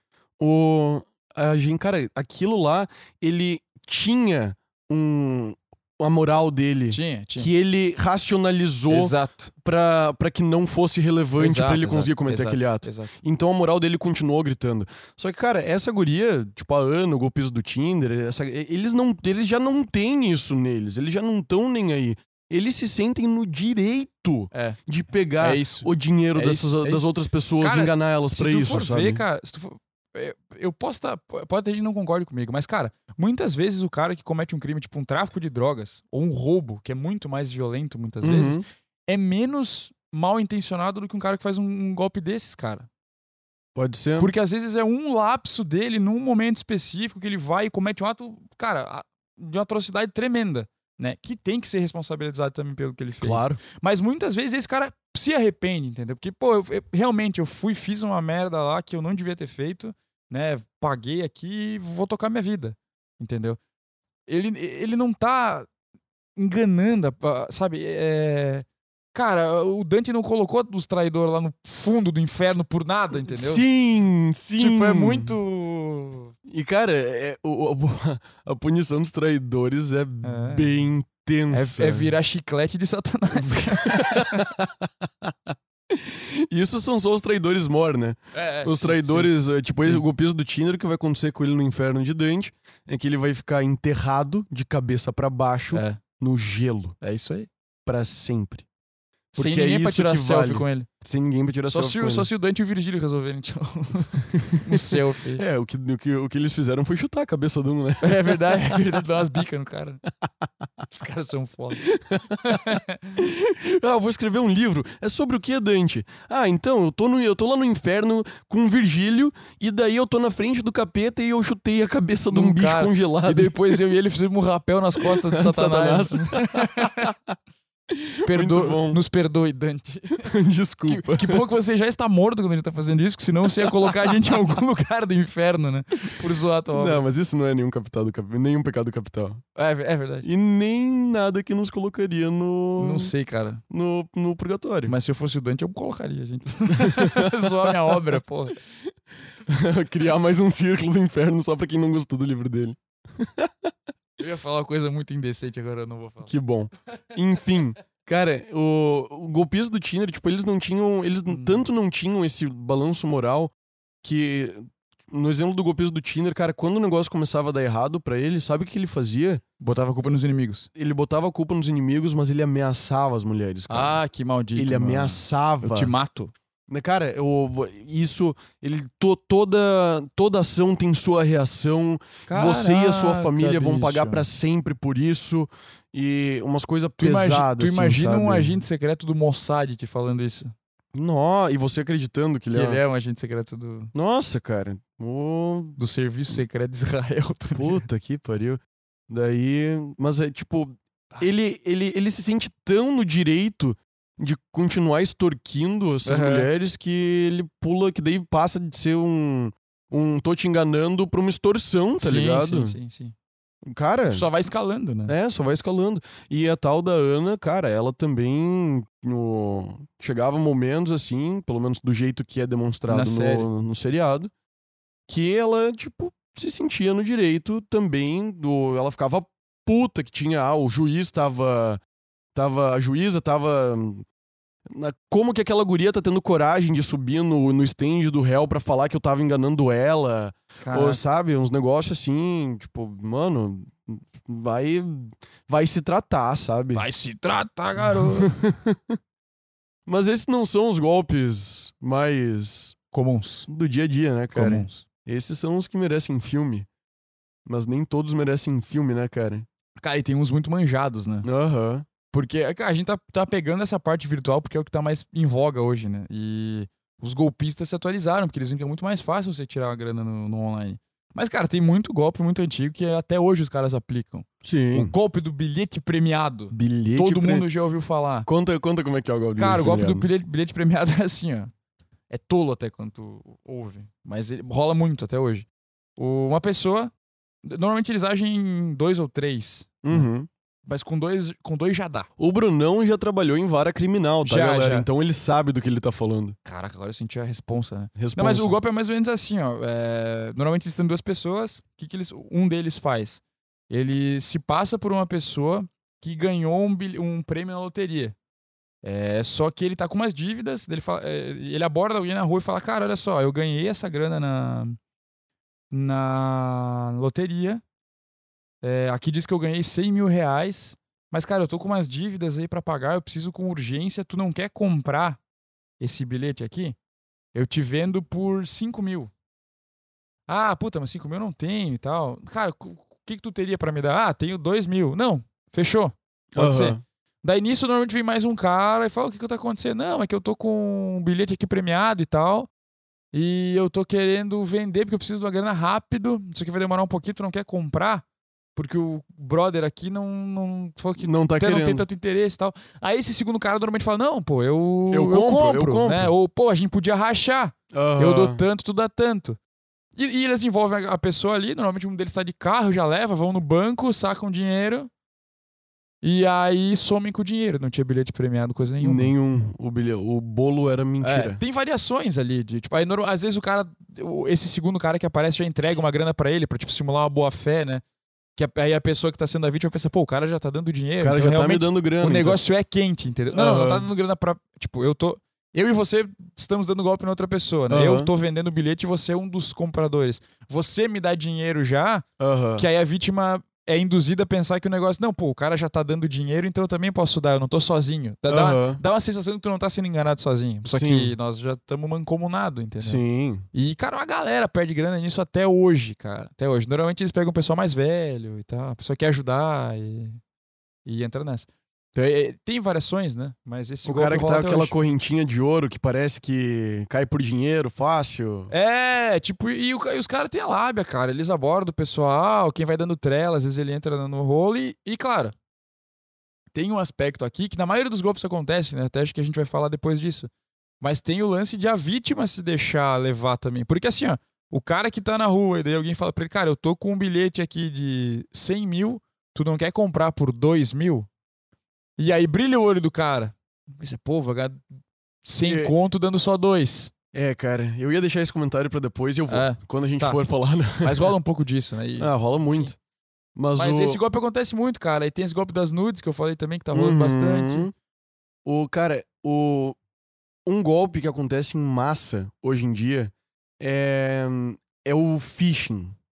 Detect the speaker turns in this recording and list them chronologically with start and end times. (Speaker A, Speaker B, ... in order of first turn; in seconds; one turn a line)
Speaker A: 0.4-29.2
Speaker B: 6.9-7.5
Speaker B: 8.9-9.5
Speaker B: 11.4-13.2
Speaker B: 24.5-24.8
Speaker B: 25.4-42.9
Speaker A: 38.2-38.6
Speaker A: 43.8-44.3
Speaker B: 44.2-63.6
Speaker A: 53.2-53.6
Speaker B: 64.3-65.7
Speaker B: 66.3-73.6
Speaker A: 73.1-75.4
Speaker B: 74.6-76.3
Speaker A: 76.5-82.1
Speaker B: 80.2-80.7
Speaker B: 81.5-84.5
Speaker A: 83.5-97.0
Speaker B: 88.3-90.0
Speaker B: 95.7-96.0
Speaker B: 97.0-97.5
Speaker A: 97.8-98.7
Speaker B: 99.3-100.9
Speaker A: 99.3-102.3
Speaker B: 101.7-105.4
Speaker A: 104.2-109.0
Speaker B: 108.0-110.0
Speaker B: 110.9-111.8
Speaker A: 111.8-123.8
Speaker B: 112.4-113.2
Speaker B: 122.3-127.1
Speaker A: 125.0-127.1
Speaker A: 127.9-129.0
Speaker B: 128.2-130.3
Speaker A: 130.2-131.4
Speaker B: 130.9-137.0
Speaker A: 133.6-134.2
Speaker A: 136.7-139.4
Speaker B: 139.6-140.3
Speaker A: 140.2-143.1
Speaker B: 142.8-143.6
Speaker A: 143.7-144.9
Speaker B: 144.8-148.6
Speaker A: 146.7-148.0
Speaker A: 149.4-153.7
Speaker B: 154.2-156.3
Speaker A: 156.2-169.4
Speaker B: 161.3-161.6
Speaker B: 169.6-170.7
Speaker A: 170.7-174.0
Speaker B: 173.7-176.3
Speaker A: 174.5-175.9
Speaker A: 176.7-188.6
Speaker B: 182.3-184.3
Speaker B: 187.0-190.5
Speaker A: 190.9-192.8
Speaker B: 192.5-193.9
Speaker A: 193.9-195.8
Speaker B: 195.8-197.8
Speaker A: 197.5-212.8
Speaker B: 206.1-206.5
Speaker B: 212.0-213.1
Speaker A: 213.7-214.2
Speaker B: 214.1-215.1
Speaker A: 215.1-224.3
Speaker B: 222.9-223.5
Speaker A: 225.1-231.8
Speaker A: 232.3-234.0
Speaker A: 234.7-246.8
Speaker B: 240.6-241.0
Speaker B: 246.7-248.3
Speaker A: 248.1-249.0
Speaker A: 249.8-252.8
Speaker B: 252.9-253.5
Speaker A: 253.5-256.7
Speaker B: 254.3-254.8
Speaker A: 257.4-259.5
Speaker B: 259.8-261.3
Speaker A: 261.2-261.9
Speaker B: 262.1-278.3
Speaker A: 274.4-274.9
Speaker A: 276.5-277.5
Speaker A: 278.2-280.1
Speaker B: 279.4-281.5
Speaker B: 282.1-286.9
Speaker B: 287.4-290.1
Speaker A: 289.8-290.3
Speaker B: 290.6-292.1
Speaker A: 292.2-296.4
Speaker B: 294.2-294.9
Speaker B: 296.4-308.1
Speaker A: 297.9-298.6
Speaker B: 308.8-314.8
Speaker B: 315.7-317.6
Speaker B: 318.6-325.2
Speaker B: 325.8-326.8
Speaker B: 327.3-329.1
Speaker B: 330.3-342.5
Speaker A: 336.3-336.8
Speaker B: 343.1-348.0
Speaker B: 348.6-359.4
Speaker A: 351.0-351.9
Speaker A: 354.9-356.1
Speaker A: 357.7-358.4
Speaker B: 359.9-364.9
Speaker B: 366.0-369.1
Speaker A: 368.8-371.4
Speaker B: 371.0-377.8
Speaker B: 378.4-392.0
Speaker A: 381.0-382.4
Speaker A: 383.3-383.9
Speaker A: 387.7-388.1
Speaker A: 392.2-392.6
Speaker B: 392.6-403.0
Speaker A: 398.3-398.8
Speaker A: 400.7-401.1
Speaker A: 402.8-403.4
Speaker B: 403.5-410.2
Speaker B: 410.8-414.7
Speaker A: 413.8-418.5
Speaker B: 418.5-425.3
Speaker B: 426.5-430.3
Speaker B: 430.8-441.1
Speaker B: 442.0-444.6
Speaker B: 445.2-446.9
Speaker A: 445.4-445.7
Speaker A: 447.1-451.1
Speaker B: 449.3-450.2
Speaker B: 450.8-452.7
Speaker A: 452.0-452.8
Speaker A: 453.4-454.0
Speaker B: 453.6-457.7
Speaker A: 456.7-457.7
Speaker A: 458.4-459.8
Speaker A: 460.4-465.9